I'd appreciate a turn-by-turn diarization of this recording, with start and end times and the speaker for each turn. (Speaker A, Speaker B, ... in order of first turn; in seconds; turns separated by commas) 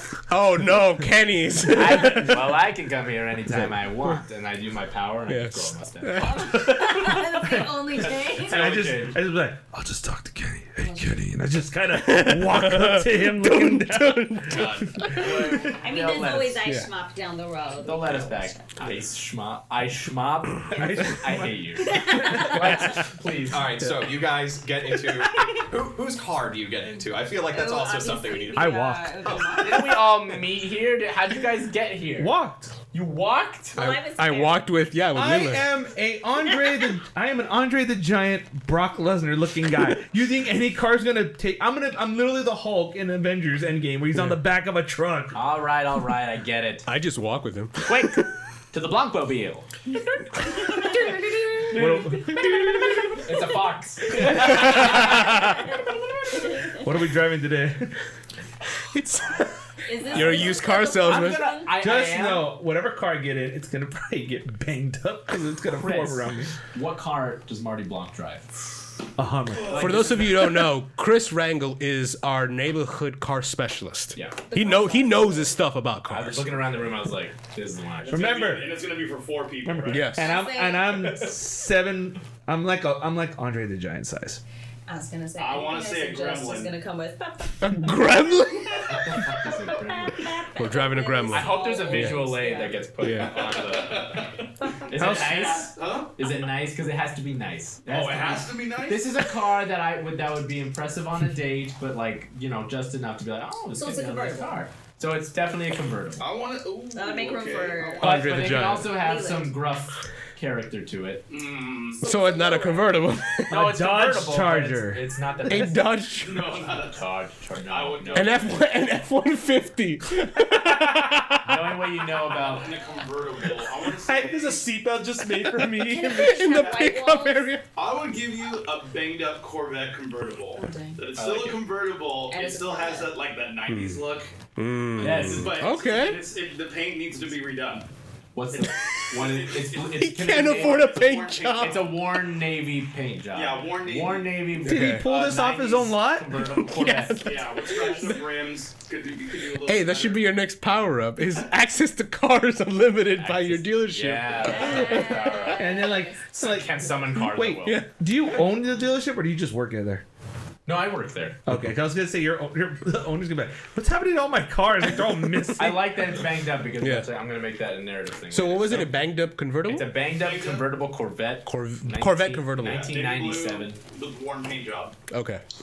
Speaker A: 0.3-2.5, Speaker B: 1.7-6.4, Speaker A: 5.3-6.8, Speaker C: 6.2-8.7, Speaker D: 8.3-9.1, Speaker E: 8.4-9.6, Speaker B: 8.5-9.2, Speaker F: 9.7-11.7, Speaker C: 10.8-11.1, Speaker E: 11.4-15.3, Speaker A: 11.9-15.0, Speaker G: 14.5-15.0, Speaker B: 15.0-16.6, Speaker C: 15.7-18.6, Speaker A: 16.6-16.9, Speaker B: 17.8-23.7, Speaker E: 20.8-23.0, Speaker C: 21.8-23.0, Speaker G: 23.5-30.0, Speaker C: 25.2-25.6, Speaker C: 27.5-30.0, Speaker E: 28.5-29.2, Speaker B: 29.6-32.3, Speaker E: 32.2-32.7, Speaker B: 32.9-33.8, Speaker C: 33.7-34.7, Speaker A: 33.8-35.7, Speaker E: 35.1-45.4, Speaker C: 36.4-37.0, Speaker B: 45.3-46.9, Speaker A: 46.9-48.2, Speaker B: 47.9-49.7, Speaker C: 49.9-51.8, Speaker B: 51.7-52.2, Speaker E: 51.7-53.2, Speaker C: 52.4-53.0, Speaker B: 53.2-55.2, Speaker E: 54.2-55.0, Speaker A: 54.3-55.1, Speaker C: 54.4-56.8, Speaker E: 56.7-58.0, Speaker A: 58.9-59.4, Speaker B: 59.2-59.5, Speaker C: 59.9-61.7, Speaker B: 60.0-60.6, Speaker A: 60.1-61.6, Speaker B: 61.3-62.5, Speaker E: 61.7-66.5, Speaker B: 65.7-68.5, Speaker E: 69.2-70.0, Speaker B: 69.6-70.5, Speaker A: 69.7-76.7, Speaker B: 74.1-74.4, Speaker C: 74.5-75.5, Speaker B: 76.1-78.2, Speaker D: 78.0-80.2, Speaker E: 78.1-78.8, Speaker E: 79.6-84.4, Speaker A: 79.9-80.2, Speaker C: 80.2-81.1, Speaker C: 84.9-87.9, Speaker D: 85.4-86.7, Speaker A: 87.6-89.0, Speaker B: 88.9-90.3, Speaker C: 89.8-92.8, Speaker A: 90.5-92.2, Speaker B: 91.3-94.3, Speaker A: 93.0-93.3, Speaker D: 93.1-96.4, Speaker B: 94.9-106.3, Speaker D: 97.8-99.3, Speaker C: 103.8-104.6, Speaker D: 106.2-108.7, Speaker C: 106.9-108.1, Speaker A: 108.0-109.0, Speaker B: 108.0-111.2, Speaker C: 108.8-109.5, Speaker D: 111.3-112.0, Speaker C: 112.0-113.0, Speaker A: 112.0-113.6, Speaker E: 113.5-115.1, Speaker B: 113.5-115.9, Speaker A: 115.5-116.5, Speaker D: 116.1-117.1, Speaker B: 116.9-118.5, Speaker D: 117.6-118.6, Speaker A: 118.1-121.9, Speaker B: 121.4-122.8, Speaker D: 122.2-124.7, Speaker E: 124.0-126.1, Speaker A: 125.3-127.7, Speaker C: 125.8-127.5, Speaker D: 126.5-126.9, Speaker D: 127.7-134.3, Speaker C: 130.5-131.0, Speaker B: 131.1-131.6, Speaker C: 132.3-133.1, Speaker A: 133.7-134.0, Speaker A: 134.6-136.2, Speaker B: 135.0-135.7, Speaker D: 135.1-137.9, Speaker B: 138.3-147.4, Speaker D: 139.2-139.6, Speaker A: 139.8-141.9, Speaker D: 140.3-141.9, Speaker D: 143.3-144.5, Speaker E: 144.6-146.4, Speaker A: 144.6-145.0, Speaker A: 146.4-148.2, Speaker D: 147.2-150.3, Speaker A: 149.6-155.4, Speaker B: 153.2-155.7, Speaker C: 154.4-156.2, Speaker E: 155.5-160.0, Speaker B: 156.3-157.8, Speaker A: 157.6-157.9, Speaker B: 160.7-161.4, Speaker E: 161.4-165.9, Speaker B: 165.6-168.9, Speaker A: 166.8-167.1, Speaker A: 168.3-169.9, Speaker B: 169.6-173.8, Speaker D: 170.1-170.7, Speaker A: 171.4-172.9, Speaker D: 172.6-174.9, Speaker A: 175.1-175.4